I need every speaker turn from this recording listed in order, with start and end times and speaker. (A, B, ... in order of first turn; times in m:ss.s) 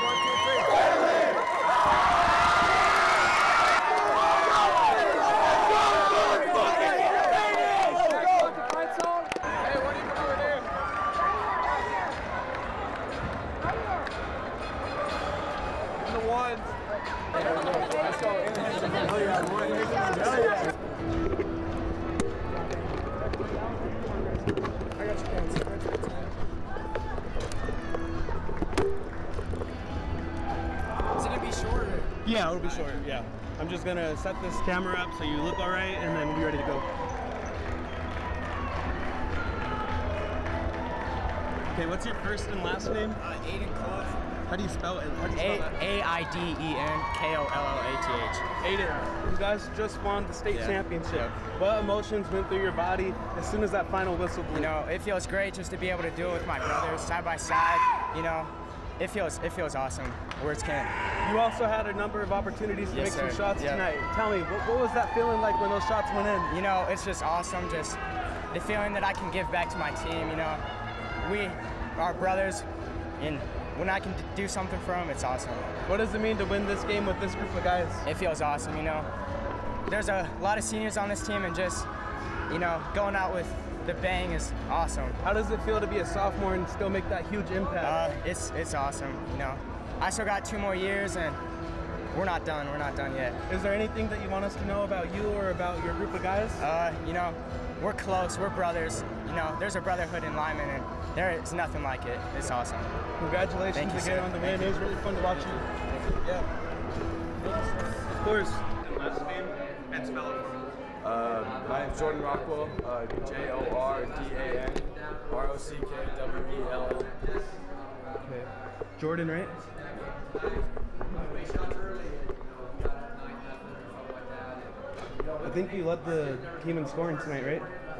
0:17.5-0:20.2 A
0:20.2-0:20.6 B
0:25.0-0:26.3 B
0:31.2-0:32.1 B
0:32.2-0:36.8 C
0:41.7-0:43.2 C
0:43.2-0:44.2 B
0:44.4-0:45.8 C
0:45.3-0:48.4 B
0:48.6-0:54.7 C
0:50.5-0:51.4 B
0:54.5-1:00.9 B
1:01.2-1:06.5 C
1:02.9-1:03.8 B
1:06.5-1:08.0 B
1:08.5-1:10.6 B
1:11.2-1:12.6 B
1:13.2-1:15.7 B
1:15.8-1:18.0 C
1:18.0-1:19.1 B
1:19.9-1:21.9 B
1:22.5-1:25.2 B
1:25.2-1:28.0 C
1:27.8-1:31.4 B
1:32.1-1:33.4 B
1:33.5-1:36.6 C
1:36.6-1:42.9 B
1:43.2-1:46.5 C
1:43.7-1:44.8 B
1:48.1-1:50.7 C
1:51.0-1:57.2 A
1:58.2-1:59.6 C
2:05.4-2:07.7 C